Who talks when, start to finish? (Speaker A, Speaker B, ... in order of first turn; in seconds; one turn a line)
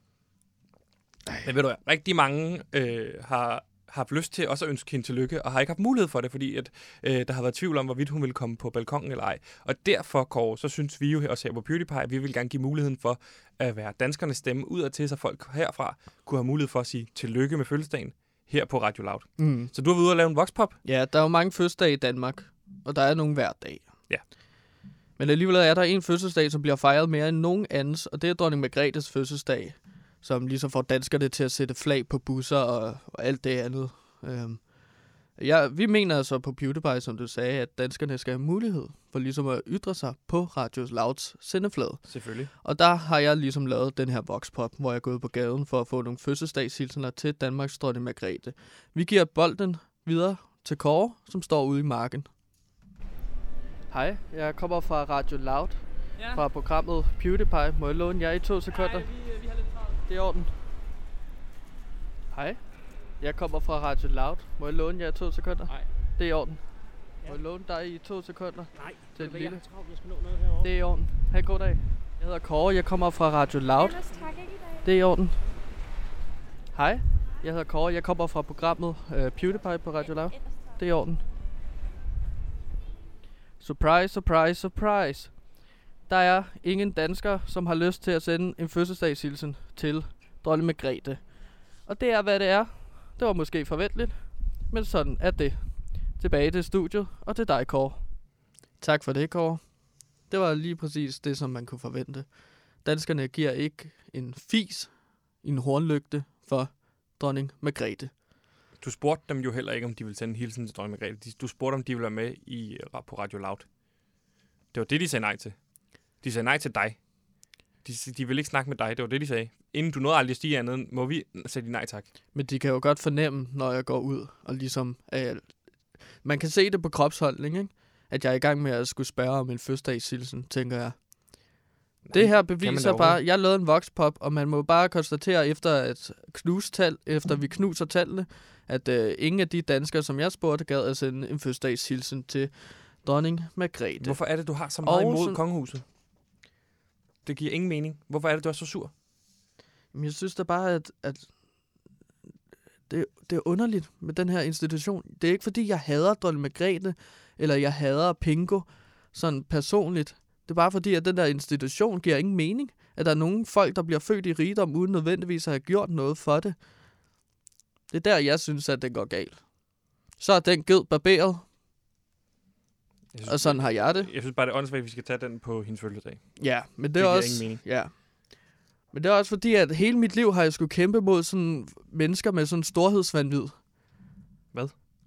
Speaker A: 1.4-20.8
Speaker B: 19.4-19.7
Speaker B: 20.8-24.3
Speaker B: 25.2-52.3
Speaker A: 42.1-42.5
Speaker B: 53.9-59.1
Speaker C: 56.1-56.5
Speaker C: 58.7-60.0
Speaker B: 60.1-60.5
Speaker B: 62.3-66.7
Speaker B: 67.2-69.6
Speaker C: 68.8-70.7
Speaker B: 70.6-74.0
Speaker D: 73.7-74.9
Speaker B: 74.8-75.4
Speaker B: 76.7-81.2
Speaker D: 80.0-81.1
Speaker B: 83.6-108.1
Speaker A: 108.8-114.2
Speaker A: 114.7-122.1
Speaker B: 122.3-145.4
Speaker A: 132.0-133.2
Speaker A: 144.0-145.8
Speaker A: 147.2-148.9
Speaker B: 149.9-151.9
Speaker B: 152.9-167.1
Speaker B: 167.9-171.4
Speaker A: 173.1-177.6
Speaker B: 173.2-174.1
Speaker B: 176.4-183.6